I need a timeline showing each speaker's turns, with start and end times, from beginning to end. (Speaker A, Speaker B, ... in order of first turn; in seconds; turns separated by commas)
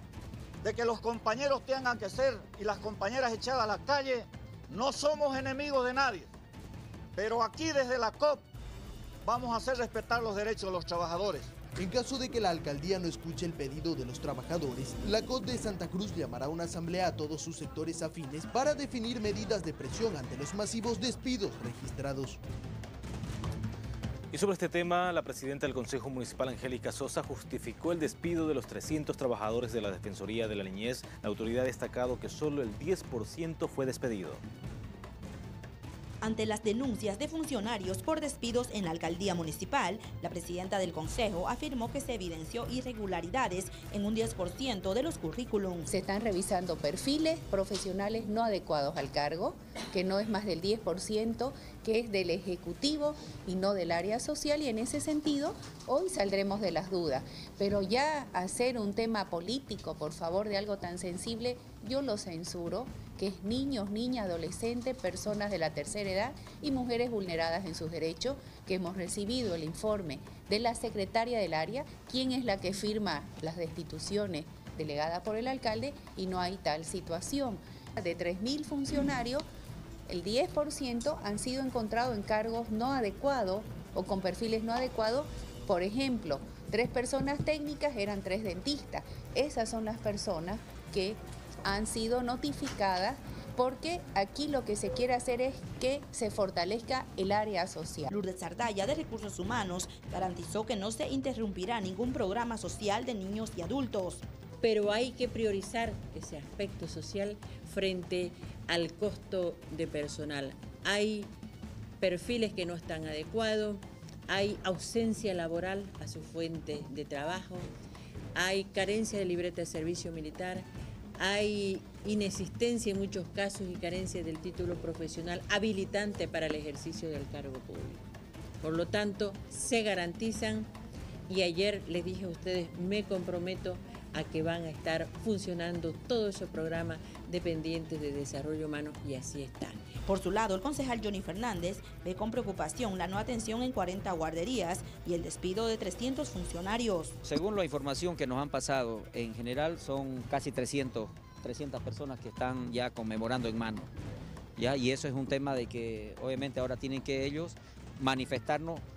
Speaker A: 0.6-6.3, Speaker A: 7.2-8.4, Speaker A: 9.2-11.5, Speaker B: 11.8-22.4, Speaker C: 24.3-34.4, Speaker D: 36.2-45.9, Speaker E: 45.9-79.5, Speaker E: 80.1-98.1, Speaker D: 98.1-104.2, Speaker F: 104.6-111.3, Speaker F: 112.0-117.7, Speaker F: 118.4-128.0, Speaker F: 128.6-130.7, Speaker F: 131.3-139.8, Speaker D: 140.0-147.2, Speaker G: 147.2-153.9, Speaker G: 154.6-158.8